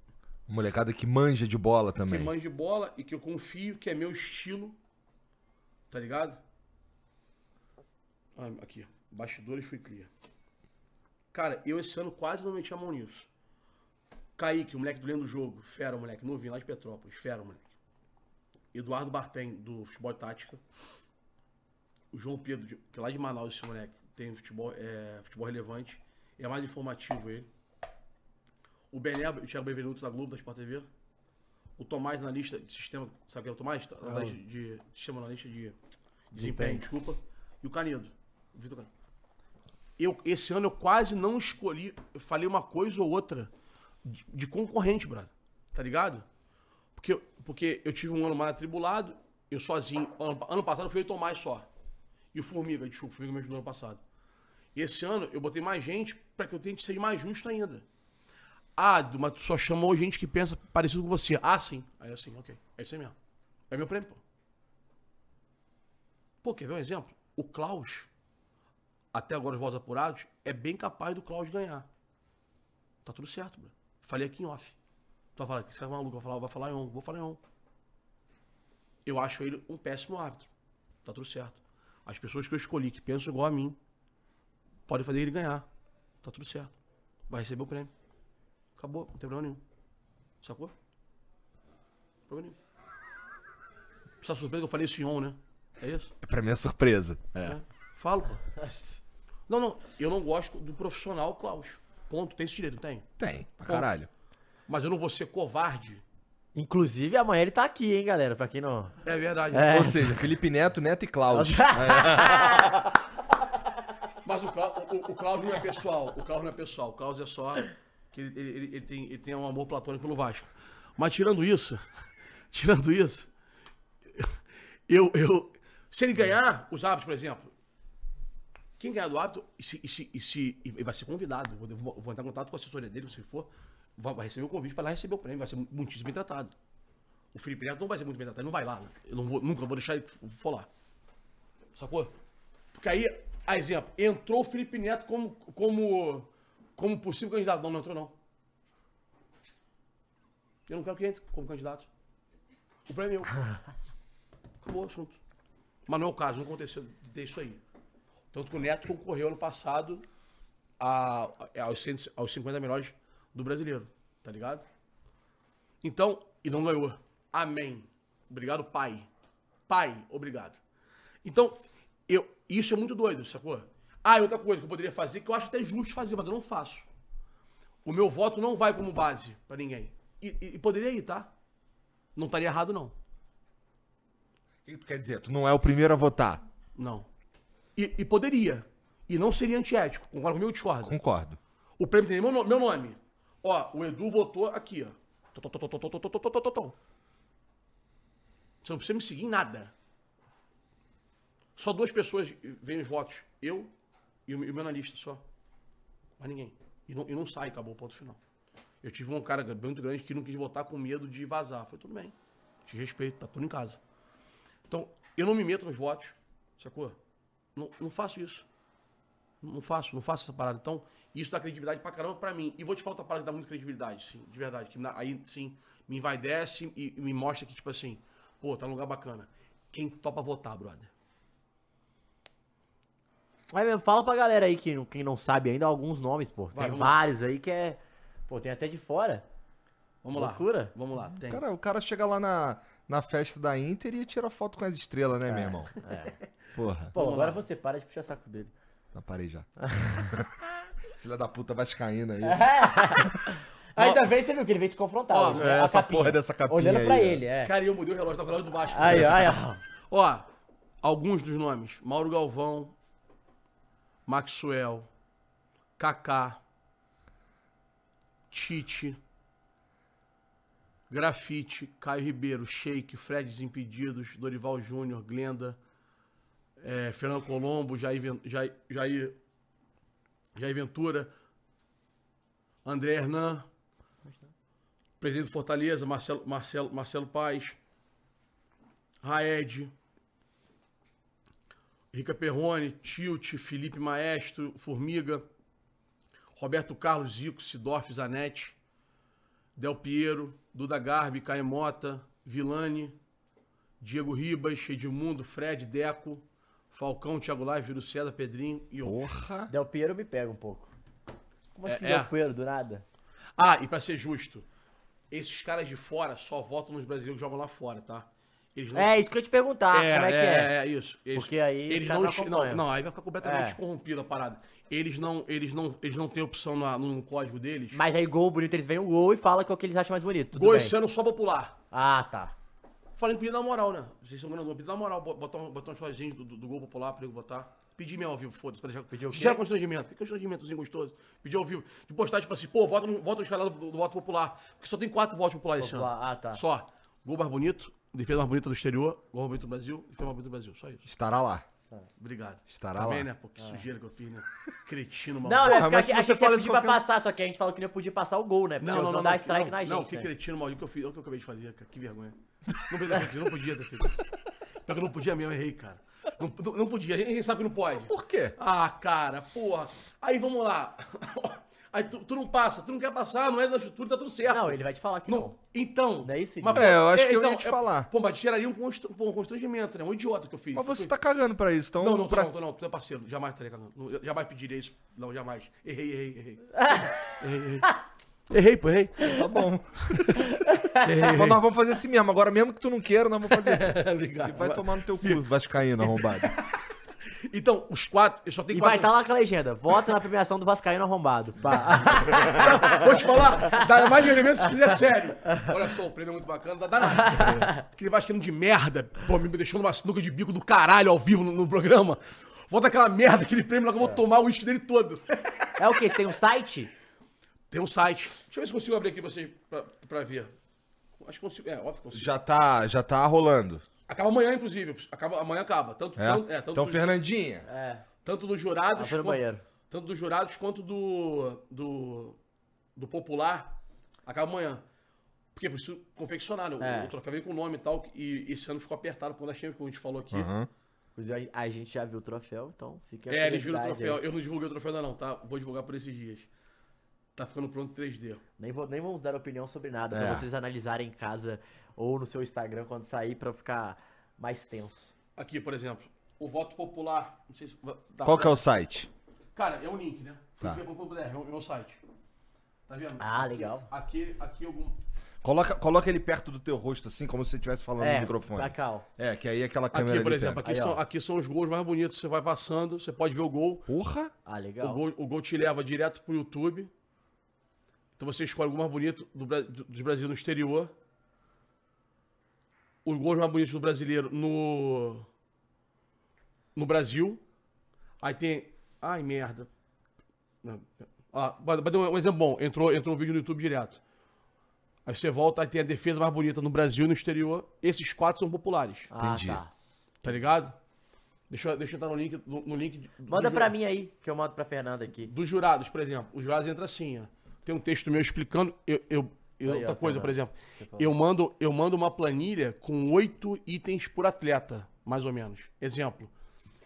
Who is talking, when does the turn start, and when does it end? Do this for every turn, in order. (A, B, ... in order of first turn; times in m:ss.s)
0:00.5-0:02.3 A
0:02.0-0:04.8 B
0:05.9-0:06.4 B
0:08.4-0:10.1 B
0:11.3-0:13.3 B
0:14.4-0:17.7 B
0:18.7-0:20.6 B
0:22.1-0:27.5 B
0:28.9-0:30.9 B
0:31.8-0:35.8 B
0:34.0-0:34.4 C
0:36.3-0:38.9 B
0:36.4-0:36.8 C
0:40.0-0:43.5 B
0:44.0-0:46.2 B
0:47.0-0:51.7 B
0:52.3-0:54.0 B
0:54.8-0:57.8 B
0:58.8-1:03.2 B
1:03.7-1:04.2 B
1:06.4-1:08.1 B
1:09.1-1:11.9 B
1:13.0-1:14.8 B
1:15.4-1:17.4 B
1:19.1-1:20.5 B
1:21.0-1:23.8 B
1:24.9-1:25.7 B
1:26.2-1:26.7 B
1:27.3-1:27.9 B
1:28.8-1:29.6 B
1:30.4-1:30.7 B
1:32.3-1:32.6 B
1:34.2-1:36.1 B
1:36.2-1:37.6 A
1:37.4-1:38.4 B
1:39.5-1:43.1 B
1:43.2-1:44.1 A
1:44.7-1:46.0 B
1:46.6-1:49.0 C
1:49.0-1:49.9 B
1:49.5-1:50.2 C
1:49.7-1:53.0 A
1:51.3-1:52.8 C
1:54.2-2:01.8 B
2:02.5-2:03.3 B
2:04.2-2:07.5 B
2:08.8-2:16.5 B
2:17.3-2:20.7 B
2:21.8-2:22.1 B
2:22.7-2:28.2 B
2:30.7-2:31.9 B
2:32.9-2:33.5 B
2:34.6-2:35.2 B
2:35.9-2:37.6 B
2:38.3-2:40.1 B
2:40.8-2:44.6 B
2:45.8-2:49.1 B
2:49.7-2:50.6 B
2:51.2-2:56.9 B
2:57.8-3:01.3 B
3:02.2-3:03.0 B
3:04.7-3:06.4 A
3:06.8-3:07.1 B
3:07.8-3:11.0 B
3:10.8-3:11.4 A
3:11.8-3:16.8 B
3:18.6-3:19.7 B
3:21.6-3:23.7 B
3:24.3-3:25.2 B
3:26.2-3:28.2 B
3:28.8-3:32.2 B
3:32.7-3:33.8 B
3:34.7-3:37.0 B
3:37.6-3:38.4 B
3:39.4-3:50.9 B
3:53.5-3:59.2 C
3:56.5-3:57.0 B
4:00.0-4:01.4 B
4:00.2-4:00.7 C
4:01.3-4:05.7 A
4:05.3-4:06.2 C
4:06.5-4:07.0 A
4:06.9-4:07.4 B
4:06.9-4:08.5 C
4:08.9-4:13.1 A
4:09.6-4:10.1 C
4:12.2-4:17.5 C
4:13.8-4:14.1 B
4:15.1-4:15.5 B
4:15.3-4:17.2 A
4:17.4-4:20.3 B
4:18.7-4:19.6 C
4:20.8-4:22.7 B
4:24.1-4:24.9 B
4:25.8-4:26.4 B
4:28.3-4:29.0 B
4:30.9-4:35.6 B
4:36.6-4:39.2 B
4:40.4-4:41.1 B
4:42.6-4:43.5 B
4:45.0-4:47.6 B
4:49.0-4:49.7 B
4:51.9-4:55.2 B
4:56.4-4:58.6 B
4:59.6-5:03.0 B
5:03.8-5:09.0 B
5:08.8-5:09.5 A
5:09.5-5:10.7 C
5:11.6-5:12.1 B
5:11.6-5:12.8 C
5:13.4-5:14.4 B
5:15.1-5:19.0 B
5:18.8-5:20.5 C
5:19.7-5:27.8 B
5:21.2-5:22.6 C
5:23.2-5:23.6 C
5:27.7-5:30.7 C
5:30.3-5:31.6 B
5:31.7-5:32.3 C
5:33.0-5:50.9 B
5:38.9-5:39.4 C
5:45.6-5:46.4 C
5:50.9-5:51.4 A
5:52.0-5:55.7 B
5:52.5-5:53.1 A
5:53.4-5:53.6 C
5:55.2-6:00.1 C
5:55.4-5:56.8 A
5:58.6-6:04.0 B
6:04.7-6:20.9 B
6:07.8-6:08.4 A
6:14.3-6:15.4 C
6:16.0-6:16.7 C
6:16.5-6:17.9 A
6:20.5-6:22.3 A
6:21.8-6:27.7 B
6:26.6-6:27.0 C
6:28.3-6:29.2 B
6:29.1-6:30.4 A
6:29.9-6:30.2 B
6:30.2-6:31.0 C
6:30.8-6:31.4 B
6:31.0-6:36.3 A
6:33.3-6:35.3 B
6:35.8-6:38.9 B
6:38.5-6:43.1 C
6:42.2-6:55.8 B
6:47.0-6:47.6 C
6:55.6-6:56.7 C
6:57.5-7:00.3 B
7:01.0-7:02.1 B
7:01.9-7:03.6 A
7:03.9-7:06.9 B
7:06.0-7:07.5 A
7:07.5-7:07.9 C
7:08.0-7:12.2 B
7:08.8-7:09.4 C
7:12.8-7:14.6 B
7:15.4-7:20.3 B
7:16.6-7:16.9 C
7:20.1-7:20.5 A
7:21.0-7:24.0 C
7:23.1-7:26.3 B
7:27.2-7:28.2 B
7:28.4-7:34.9 C
7:29.9-7:30.3 A
7:35.2-7:38.4 B
7:38.0-7:38.9 A
7:39.4-7:41.8 B
7:42.7-7:44.8 B
7:43.0-7:43.7 C
7:45.2-7:50.4 A
7:47.8-7:48.9 C
7:49.7-7:53.7 B
7:50.4-7:50.8 C
7:53.7-7:54.1 A
7:54.3-7:54.8 C
7:54.6-7:56.7 B
7:58.0-8:00.7 B
8:02.8-8:05.1 B
8:06.6-8:07.2 B
8:08.0-8:09.5 B
8:10.4-8:13.8 B
8:14.9-8:18.9 B
8:18.9-8:19.5 C
8:19.0-8:19.4 A
8:20.0-8:20.6 B
8:21.3-8:23.5 B
8:23.1-8:25.1 C
8:25.1-8:36.1 B
8:29.5-8:30.9 C